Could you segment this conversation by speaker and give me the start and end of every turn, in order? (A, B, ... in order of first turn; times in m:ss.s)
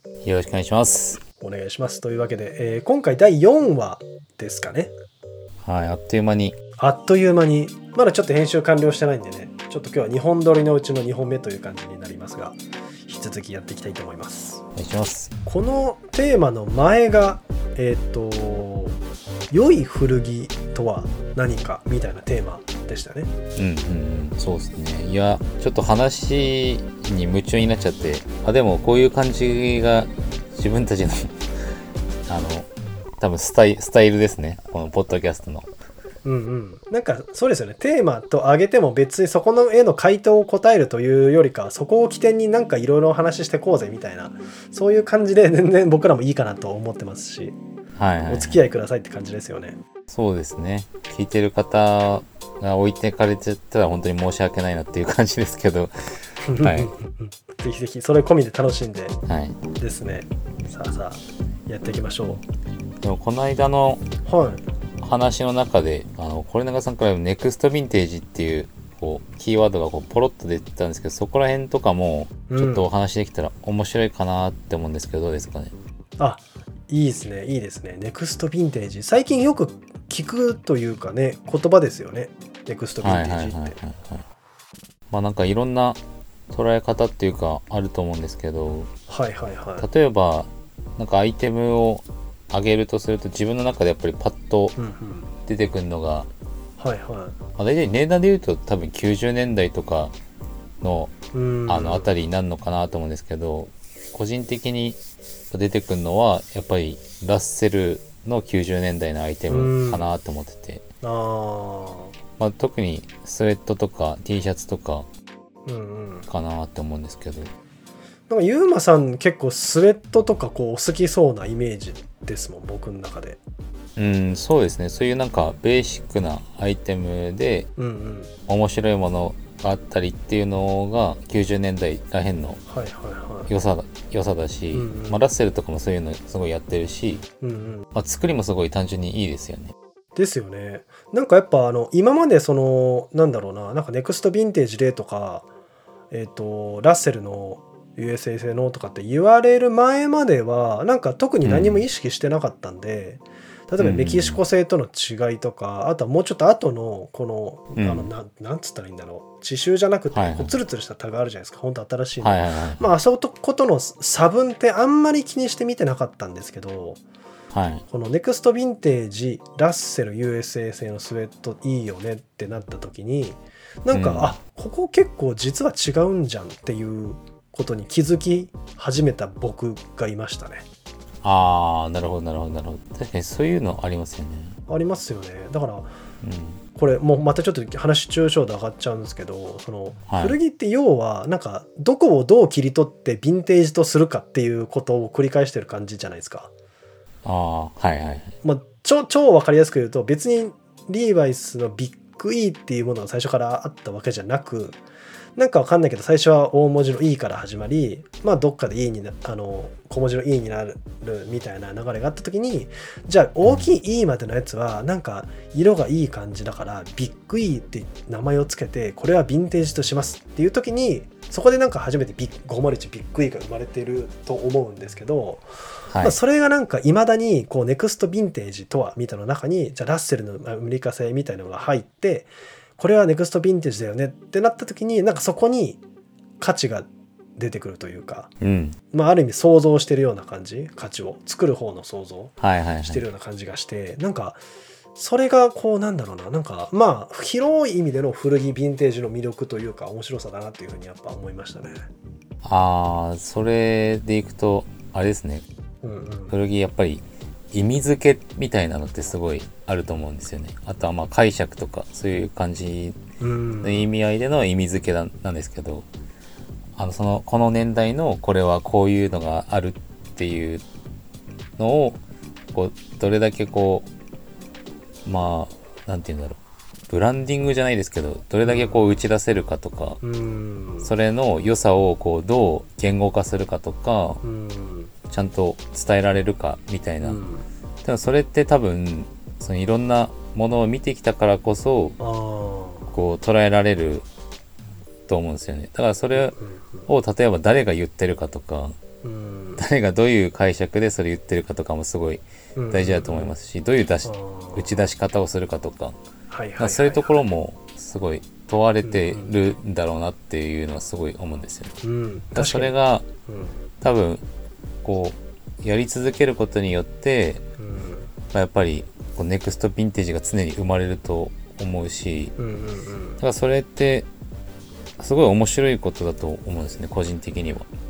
0:00.2-0:01.2 A
0:01.4-0:04.9 B
0:05.6-0:06.5 A
0:06.8-0:14.6 B
0:14.8-0:15.3 A
0:15.4-0:19.0 B
0:19.5-0:23.3 B
0:23.5-0:31.4 A
0:32.3-0:32.7 A
0:33.2-0:35.7 A
0:36.2-0:47.6 B
0:48.0-0:48.6 A
0:48.3-0:49.8 B
0:50.1-0:55.9 A
0:56.4-0:59.2 B
0:56.6-0:56.9 A
0:59.3-0:59.6 A
0:59.8-1:02.4 B
1:03.0-1:04.0 A
1:04.2-1:04.6 B
1:05.0-1:15.7 A
1:12.5-1:12.9 B
1:16.2-1:23.8 B
1:23.0-1:24.2 A
1:25.1-1:28.9 A
1:29.1-1:29.8 B
1:29.8-1:34.7 A
1:34.8-1:35.3 B
1:35.5-1:36.3 A
1:36.8-1:37.4 B
1:37.6-1:40.1 A
1:40.8-1:41.1 A
1:41.3-1:42.1 B
1:41.7-1:45.0 A
1:45.5-1:50.8 A
1:49.5-1:50.1 B
1:51.0-1:52.1 B
1:52.4-1:55.1 A
1:55.6-1:56.3 B
1:56.3-1:57.5 A
1:58.3-2:03.4 B
2:04.0-2:07.7 A
2:07.8-2:08.3 B
2:08.5-2:12.6 A
2:12.7-2:13.5 B
2:13.5-2:17.2 A
2:14.7-2:15.2 B
2:17.4-2:17.9 B
2:17.9-2:19.7 A
2:20.2-2:25.5 B
2:26.1-2:47.0 B
2:31.4-2:31.8 A
2:33.8-2:34.4 A
2:37.8-2:38.1 A
2:40.1-2:40.5 A
2:42.2-2:42.8 A
2:47.5-2:47.8 A
2:47.9-3:00.6 B
2:53.9-2:54.4 A
3:01.2-3:04.6 A
3:04.7-3:05.9 B
3:06.2-3:06.6 A
3:06.7-3:16.5 B
3:10.1-3:10.4 A
3:17.2-3:18.3 A
3:18.4-3:24.8 B
3:25.4-3:45.4 B
3:45.9-3:46.2 A
3:46.0-3:55.8 B
3:56.4-3:58.3 B
3:58.4-3:58.8 A
3:58.9-4:04.4 B
4:02.4-4:03.0 A
4:04.9-4:11.8 B
4:12.4-4:15.4 A
4:15.8-4:16.4 B
4:16.3-4:23.0 A
4:23.2-4:23.9 B
4:23.6-4:25.9 A
4:26.8-4:30.6 A
4:31.6-4:32.0 A
4:32.5-4:33.9 A
4:35.0-4:40.0 A
4:38.4-4:38.8 B
4:40.0-4:40.9 B
4:40.8-4:44.2 A
4:44.2-4:44.9 B
4:45.1-4:47.2 A
4:47.0-4:47.4 B
4:47.8-4:52.0 A
4:52.0-4:52.9 B
4:52.9-4:54.0 A
4:55.1-4:56.3 A
4:56.1-4:56.9 B
4:56.9-4:58.8 A
4:59.0-4:59.6 B
4:59.6-5:06.0 A
5:02.6-5:03.3 B
5:04.0-5:04.7 B
5:06.3-5:07.2 B
5:06.6-5:11.7 A
5:08.8-5:09.3 B
5:11.8-5:12.7 B
5:12.3-5:13.1 A
5:13.3-5:13.6 B
5:13.8-5:14.2 A
5:14.8-5:17.4 A
5:17.6-5:18.1 B
5:18.3-5:22.3 A
5:22.4-5:23.2 B
5:23.2-5:24.1 A
5:25.0-5:27.7 A